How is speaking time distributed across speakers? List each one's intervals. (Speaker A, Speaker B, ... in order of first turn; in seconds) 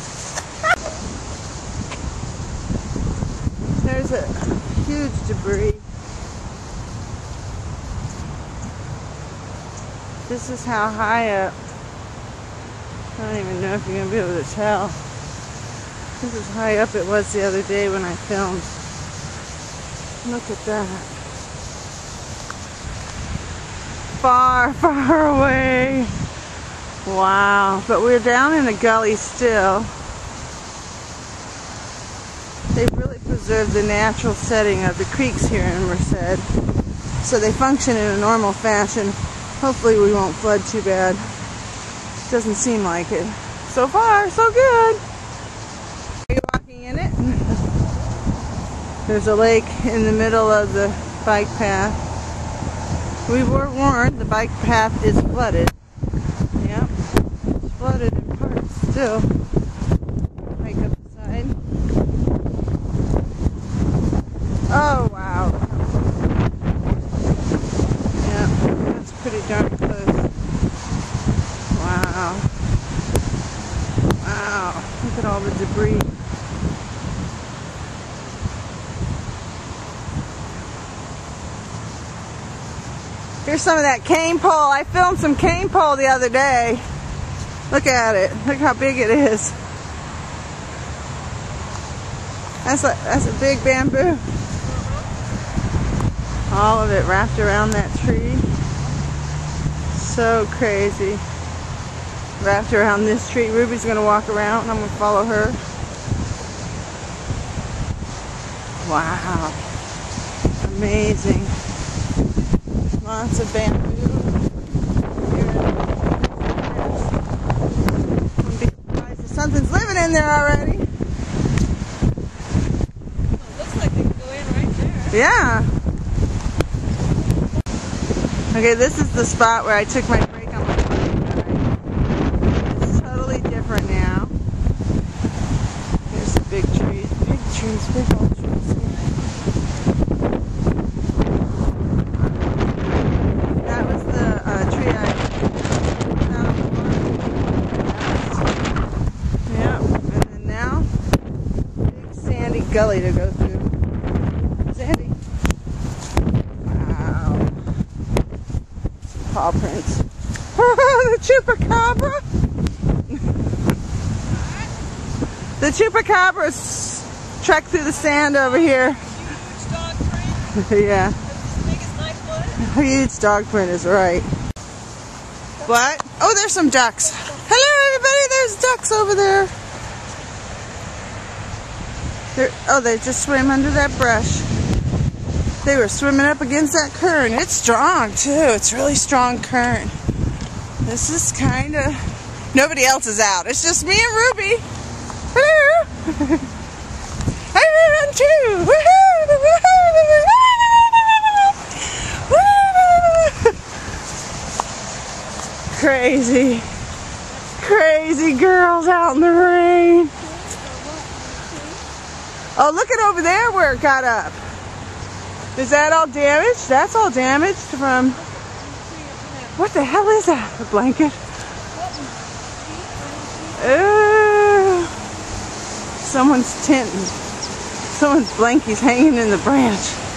Speaker A: 3.8-5.8, 10.3-11.6, 13.2-15.0, 16.2-18.7, 20.2-21.1, 24.2-26.1, 27.1-29.9, 32.7-36.5, 37.2-41.3, 42.3-45.0, 46.3-47.6, 49.1-52.0, 53.3-55.7, 56.6-56.9, 57.5-59.3, 60.6-61.6, 64.7-66.0, 68.2-70.3, 71.7-72.5, 74.2-76.1, 83.5-86.8, 87.7-89.6, 92.7-94.2, 96.5-98.5, 99.9-101.2, 102.4-105.6, 108.8-109.6, 110.6-111.5, 113.0-114.4, 115.3-117.1, 118.4-120.9, 125.1-125.7, 128.5-131.7, 132.6-134.3, 136.1-139.1, 143.6-148.4, 149.5-150.9, 151.8-153.7, 154.7-155.2, 156.6-157.5, 159.1-162.2, 165.6-169.1, 170.5-171.2, 172.6-174.3, 175.6-179.5, 182.3-184.5, 185.6-189.9, 190.8-194.7, 195.3-196.5, 197.5-203.6, 205.7-206.7, 207.3-210.2, 212.6-214.4, 215.6-218.2, 219.6-221.2, 223.6-225.0, 226.0-227.2, 227.9-230.0
Speaker B: 123.3-125.2, 168.0-170.6, 171.2-172.6, 210.2-211.8, 218.2-219.6, 221.7-223.7